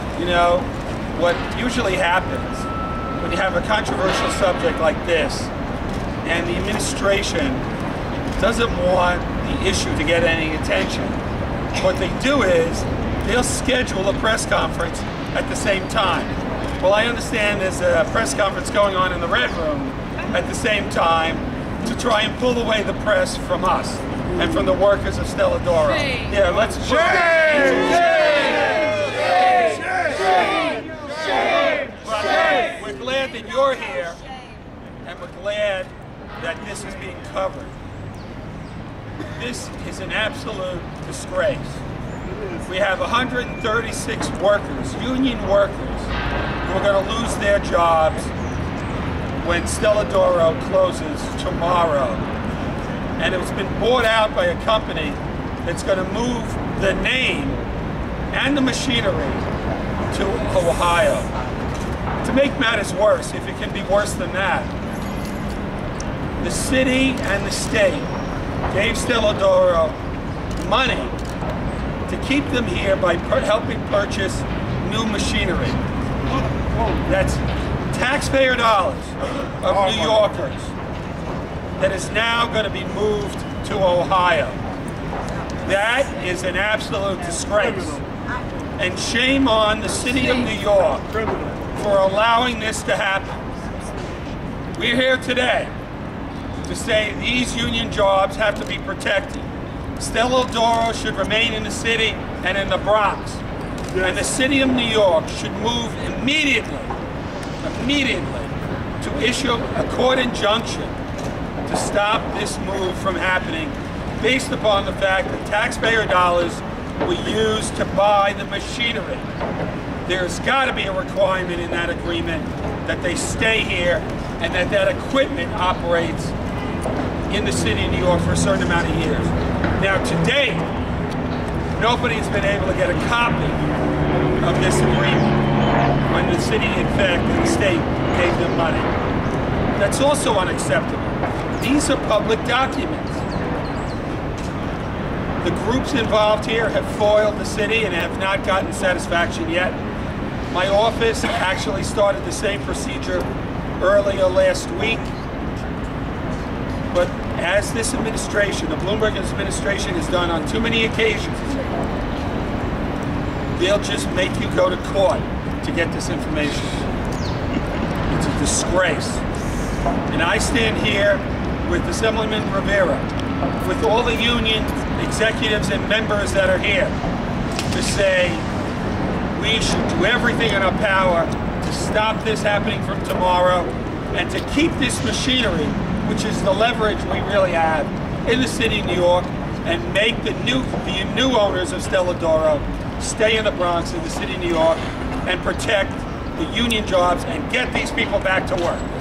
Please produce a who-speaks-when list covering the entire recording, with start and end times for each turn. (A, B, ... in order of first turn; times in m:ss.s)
0:00.2-0:05.5 A
0:06.2-0:07.6 A
0:08.4-0:11.2 A
0:11.8-0:30.2 A
0:31.8-0:34.2 A
0:35.0-0:37.7 A
0:39.3-0:41.8 A
0:42.7-0:46.1 A
0:46.6-0:48.3 A
0:49.4-0:52.2 A
0:53.2-0:57.6 A
0:58.3-0:59.5 A
1:00.1-1:01.3 A
1:02.2-1:04.7 A
1:06.4-1:08.1 A
1:08.7-1:10.0 A
1:10.6-1:11.2 A
1:12.1-1:15.8 A
1:17.1-1:20.7 A
1:21.8-1:24.6 A
1:25.6-1:28.0 A
1:28.8-1:31.1 A
1:31.7-1:33.4 A
1:34.8-1:35.7 A
1:36.6-1:43.4 A
1:44.0-1:46.9 A
1:47.6-1:51.0 A
1:51.7-1:59.3 A
2:00.1-2:06.4 A
2:07.3-2:10.7 A
2:11.8-2:13.6 A
2:14.4-2:15.4 A
2:16.1-2:18.9 A
2:19.8-2:23.2 A
2:25.4-2:29.8 A
2:30.5-2:33.3 A
2:33.8-2:35.1 A
2:36.9-2:41.6 A
2:43.6-2:46.8 A
2:48.1-2:49.2 A
2:50.1-2:53.1 A
2:53.6-2:57.0 A
2:57.7-2:58.5 A
2:59.3-3:18.8 A